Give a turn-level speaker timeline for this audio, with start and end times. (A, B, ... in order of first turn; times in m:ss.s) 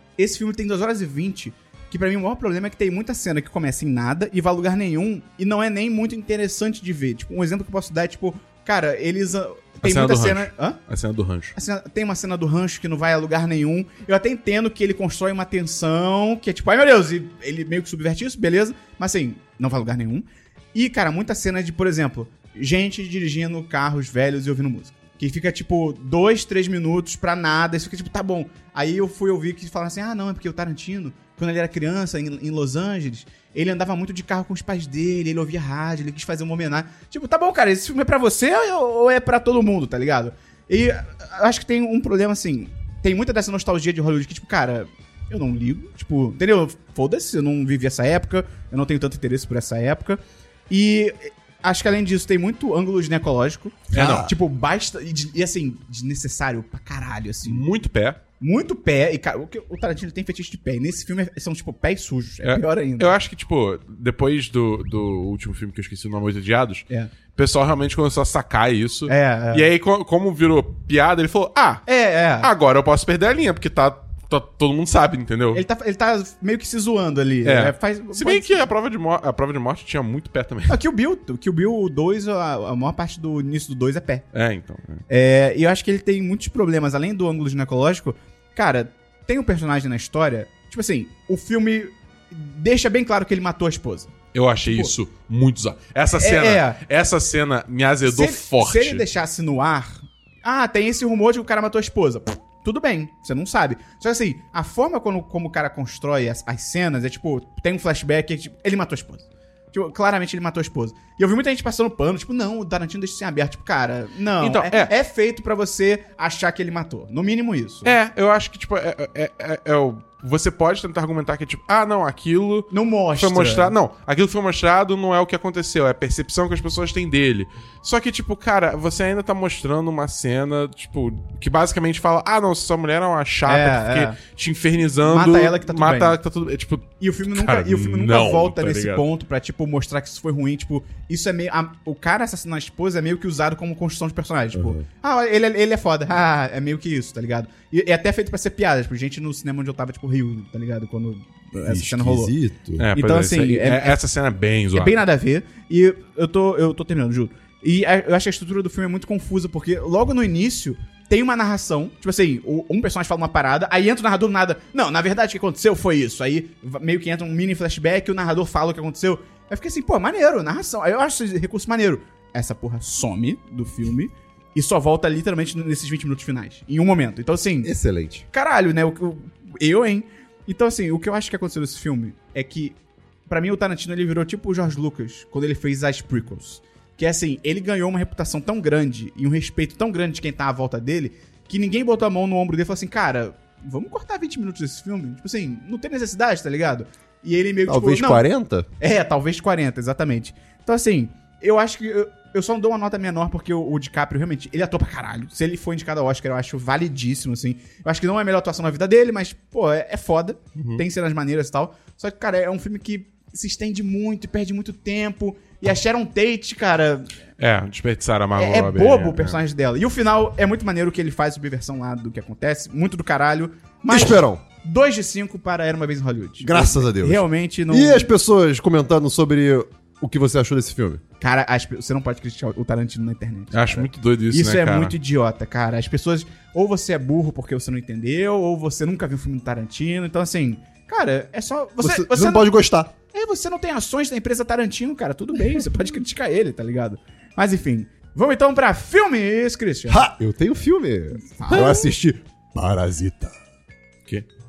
0:00.2-0:10.8 A
0:09.8-0:11.5 B
0:11.6-0:57.6 A
0:53.9-0:54.3 B
0:53.9-0:54.3 C
0:57.4-0:58.2 B
0:58.4-1:03.1 A
1:02.4-1:11.8 B
1:09.1-1:09.7 A
1:11.8-1:12.5 A
1:12.4-1:15.6 B
1:15.5-1:18.7 A
1:17.4-1:20.8 B
1:20.7-1:24.2 A
1:24.3-1:25.0 B
1:25.1-1:34.1 A
1:34.3-1:39.0 B
1:34.6-1:34.9 A
1:36.2-1:36.8 A
1:38.0-1:57.9 A
1:54.4-1:54.9 B
1:57.8-2:19.0 B
2:02.7-2:03.7 A
2:13.4-2:14.2 A
2:15.0-2:16.2 A
2:17.0-2:32.3 A
2:24.5-2:24.8 C
2:31.6-2:32.9 C
2:32.8-2:35.0 B
2:32.9-2:34.0 A
2:34.7-2:57.7 A
2:57.6-2:58.3 C
2:58.3-3:18.2 A
3:17.6-3:18.7 C
3:18.8-3:37.1 A
3:30.6-3:30.8 B
3:37.4-3:39.4 B
3:38.4-3:48.1 A
3:43.9-3:44.4 C
3:46.4-3:51.0 C
3:51.2-4:02.5 A
3:53.5-3:55.0 B
4:01.8-4:02.9 C
4:03.1-4:10.0 A
4:09.9-4:13.4 C
4:11.2-4:11.9 A